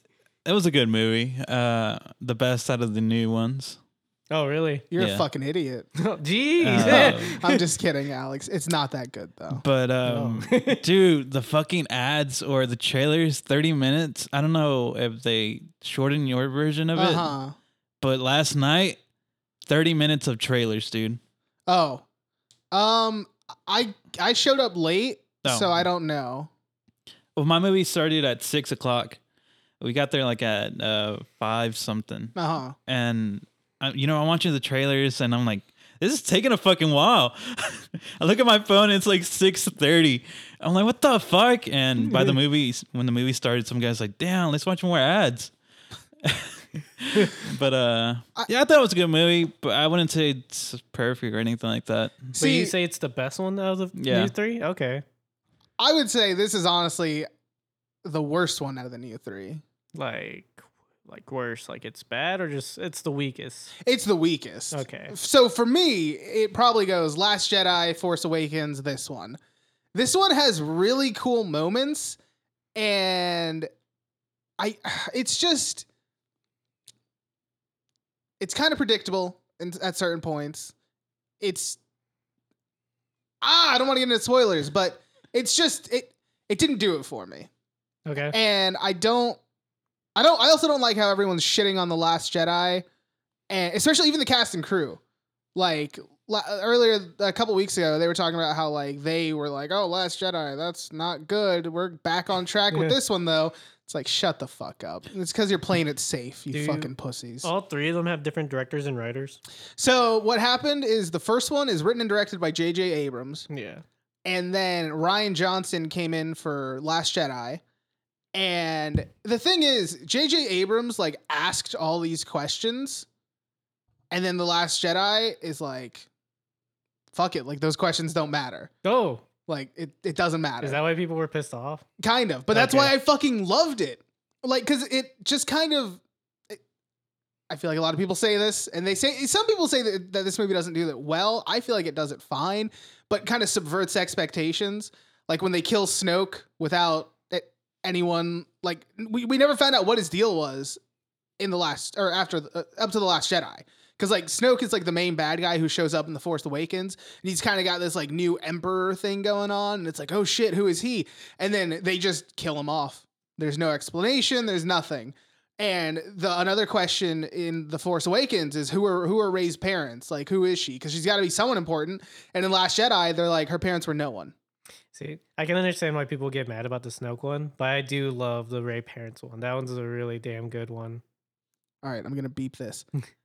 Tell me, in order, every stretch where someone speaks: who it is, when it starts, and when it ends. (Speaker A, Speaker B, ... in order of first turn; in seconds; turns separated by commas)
Speaker A: 0.5-3.8, Speaker B: 4.3-4.9, Speaker C: 4.9-5.9, Speaker A: 5.0-5.2, Speaker B: 6.0-7.6, Speaker A: 6.6-7.4, Speaker C: 6.8-9.6, Speaker A: 9.5-17.3, Speaker B: 10.1-10.8, Speaker C: 16.9-17.6, Speaker A: 18.0-19.0, Speaker A: 19.7-21.2, Speaker C: 21.7-22.0, Speaker C: 22.7-26.5, Speaker A: 25.4-25.8, Speaker A: 27.4-29.2, Speaker A: 29.8-32.4, Speaker C: 32.4-32.8, Speaker A: 32.9-45.5, Speaker B: 42.1-42.4, Speaker A: 46.2-52.4, Speaker C: 52.4-52.7, Speaker B: 52.4-55.0, Speaker A: 54.0-54.3, Speaker C: 55.8-57.3, Speaker C: 58.0-59.6, Speaker B: 60.0-63.7, Speaker C: 63.8-69.4, Speaker B: 64.7-65.2, Speaker C: 69.9-72.2, Speaker C: 72.8-73.7, Speaker C: 74.6-75.9, Speaker C: 78.4-80.7, Speaker C: 81.4-81.8, Speaker C: 83.4-87.5, Speaker B: 88.1-88.4, Speaker C: 88.3-89.4, Speaker C: 90.2-92.8, Speaker C: 93.5-95.0, Speaker C: 95.5-107.5, Speaker B: 102.7-103.0, Speaker B: 106.5-106.9, Speaker B: 107.4-109.4, Speaker C: 109.8-113.5, Speaker B: 113.5-113.8, Speaker C: 114.3-117.6, Speaker C: 118.3-123.1, Speaker C: 124.1-126.1, Speaker C: 127.1-128.7, Speaker B: 128.8-129.2, Speaker C: 129.5-130.8, Speaker B: 130.6-131.8, Speaker C: 132.0-136.6, Speaker B: 132.5-132.9, Speaker C: 137.5-150.8, Speaker C: 151.4-174.3, Speaker B: 174.9-181.0, Speaker C: 181.8-182.9